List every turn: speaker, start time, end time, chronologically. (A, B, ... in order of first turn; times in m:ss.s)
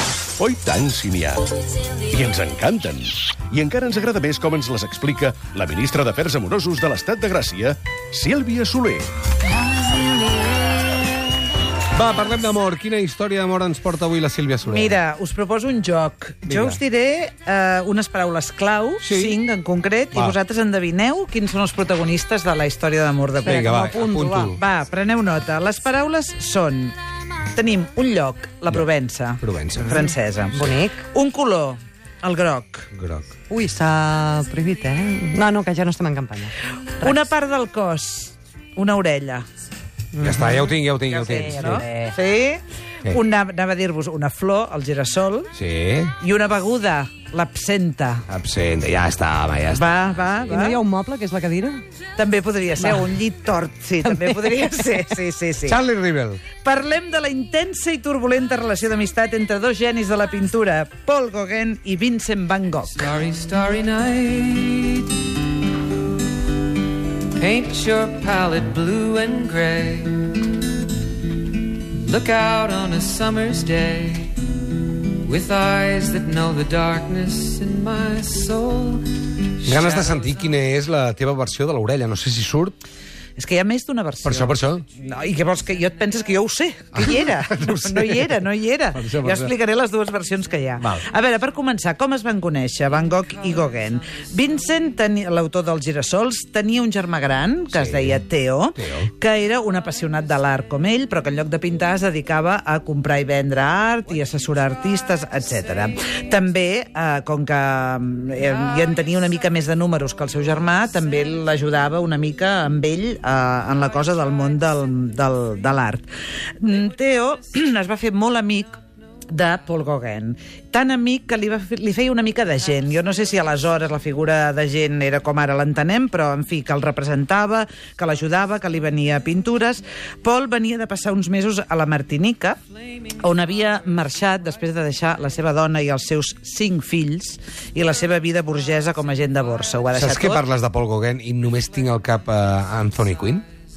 0:00.4-0:01.5 A
0:02.1-0:09.1 A
0:11.9-0:15.0 B
0:14.6-0:26.9 C
0:16.4-0:16.8 B
0:19.0-0:19.4 B
0:23.4-0:24.5 D
0:23.4-0:24.6 B
0:27.5-0:32.9 C
0:29.4-0:30.1 B
0:30.5-0:31.0 D
0:32.9-0:33.3 B
0:33.5-0:37.1 D
0:37.0-0:39.4 C
0:40.1-0:40.7 D
0:40.2-0:41.8 B
0:41.0-0:45.5 C
0:41.3-0:42.1 D
0:45.5-0:46.1 B
0:46.2-0:48.2 C
0:48.3-0:50.3 B
0:49.7-0:50.8 C
0:50.5-0:51.8 D
0:52.2-0:55.8 C
0:54.1-0:54.8 D
0:55.7-0:56.4 B
0:56.6-1:03.1 C
1:03.0-1:05.2 E
1:07.4-1:10.5 E
1:11.8-1:14.5 E
1:15.2-1:20.2 E
1:19.6-1:22.8 B
1:23.4-1:56.0 C
1:24.2-1:24.8 B
1:26.9-1:28.4 B
1:28.9-1:29.5 B
1:37.7-1:38.2 B
1:38.8-1:39.1 B
1:56.6-1:58.8 C
1:59.3-2:12.6 C
2:13.2-2:20.4 C
2:19.9-2:23.4 B